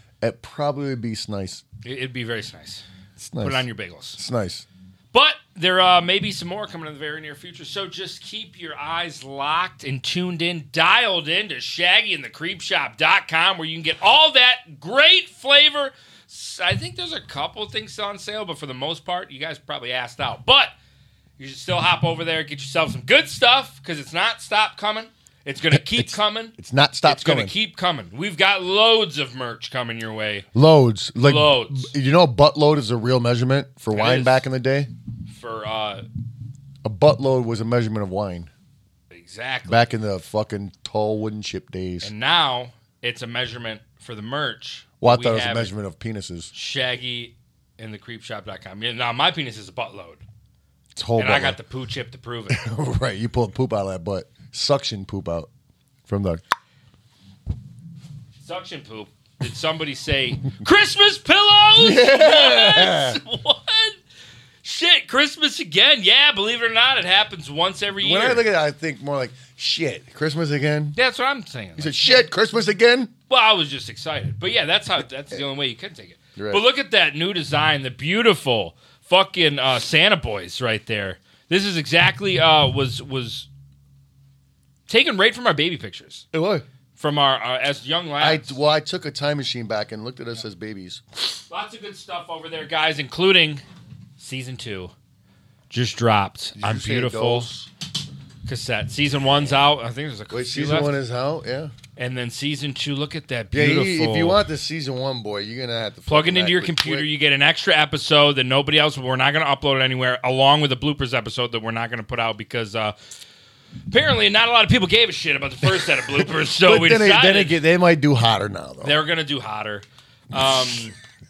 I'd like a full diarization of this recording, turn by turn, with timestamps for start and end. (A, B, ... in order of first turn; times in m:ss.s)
0:00.2-0:01.6 A
0:01.8-0:02.8 B
0:03.2-0:03.7 A
0:03.4-0:04.2 B
0:04.2-0:04.7 A
0:05.1-0:20.7 B
0:21.4-0:30.5 B
0:25.7-0:27.5 A
0:30.5-0:34.9 A
0:31.2-0:31.9 B
0:33.9-0:34.4 B
0:35.3-0:36.1 B
0:36.8-0:38.5 A
0:39.1-0:39.9 B
0:39.7-0:42.1 A
0:42.0-0:45.7 B
0:45.0-0:46.5 A
0:46.5-0:50.2 B
0:51.0-0:51.6 A
0:51.2-0:52.6 B
0:52.5-0:55.5 A
0:56.1-0:56.4 A
0:58.4-1:04.0 B
1:01.8-1:03.2 A
1:04.6-1:08.4 B
1:08.0-1:11.0 A
1:11.0-1:12.3 B
1:11.8-1:13.1 A
1:13.3-1:23.5 B
1:16.4-1:16.6 A
1:24.9-1:26.2 B
1:26.3-1:26.6 A
1:27.0-1:28.6 B
1:28.2-1:31.0 A
1:31.5-1:33.6 B
1:34.2-1:34.9 B
1:35.7-1:37.5 B
1:36.6-1:37.7 A
1:38.5-1:41.0 B
1:40.3-1:41.7 A
1:42.0-1:44.4 B
1:43.5-1:47.1 A
1:46.1-1:53.0 B
1:53.9-1:57.6 B
1:56.0-1:59.0 A
1:58.8-2:01.0 B